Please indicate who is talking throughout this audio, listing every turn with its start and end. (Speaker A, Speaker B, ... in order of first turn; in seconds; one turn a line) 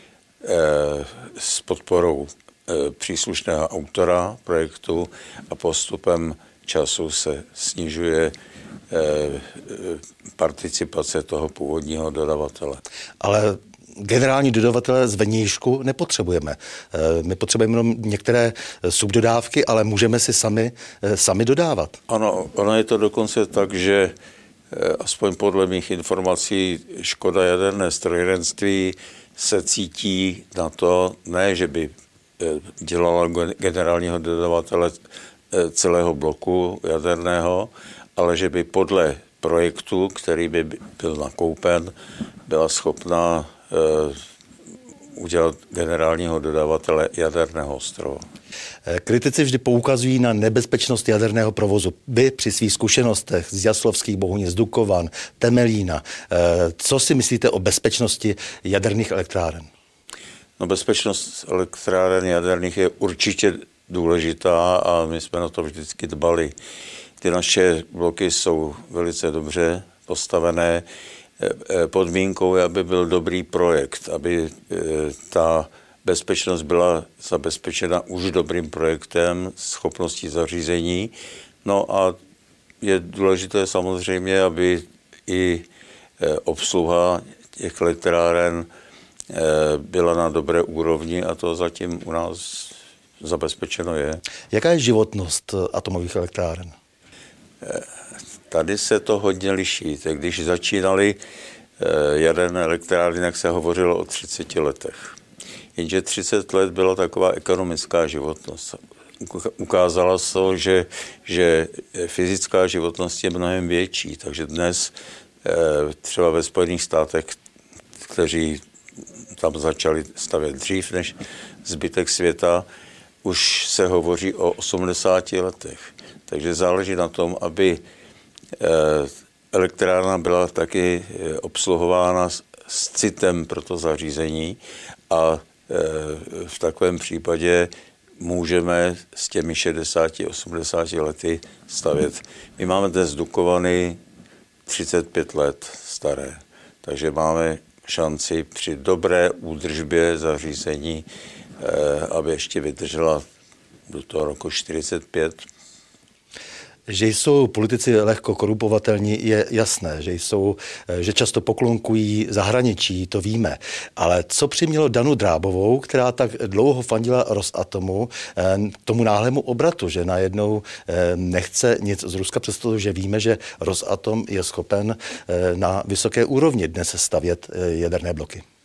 Speaker A: 0.4-8.3
Speaker A: 8.9-12.8
Speaker B: 13.2-22.0
Speaker A: 22.1-24.1
Speaker A: 24.7-35.0
Speaker A: 35.5-41.9
Speaker A: 42.5-44.2
Speaker A: 45.1-48.2
Speaker B: 48.9-59.7
Speaker A: 60.6-66.5
Speaker A: 67.2-70.9
Speaker A: 71.4-82.2
Speaker A: 82.8-85.7
Speaker A: 86.2-88.7
Speaker A: 89.3-94.2
Speaker B: 94.5-96.7
Speaker A: 97.6-97.9
Speaker A: 98.5-101.2
Speaker A: 101.8-105.2
Speaker A: 105.8-117.4
Speaker A: 118.0-118.6
Speaker A: 119.3-122.7
Speaker A: 123.2-127.8
Speaker A: 128.6-144.0
Speaker A: 144.7-151.1
Speaker A: 151.6-153.2
Speaker A: 153.9-155.5
Speaker B: 156.9-178.4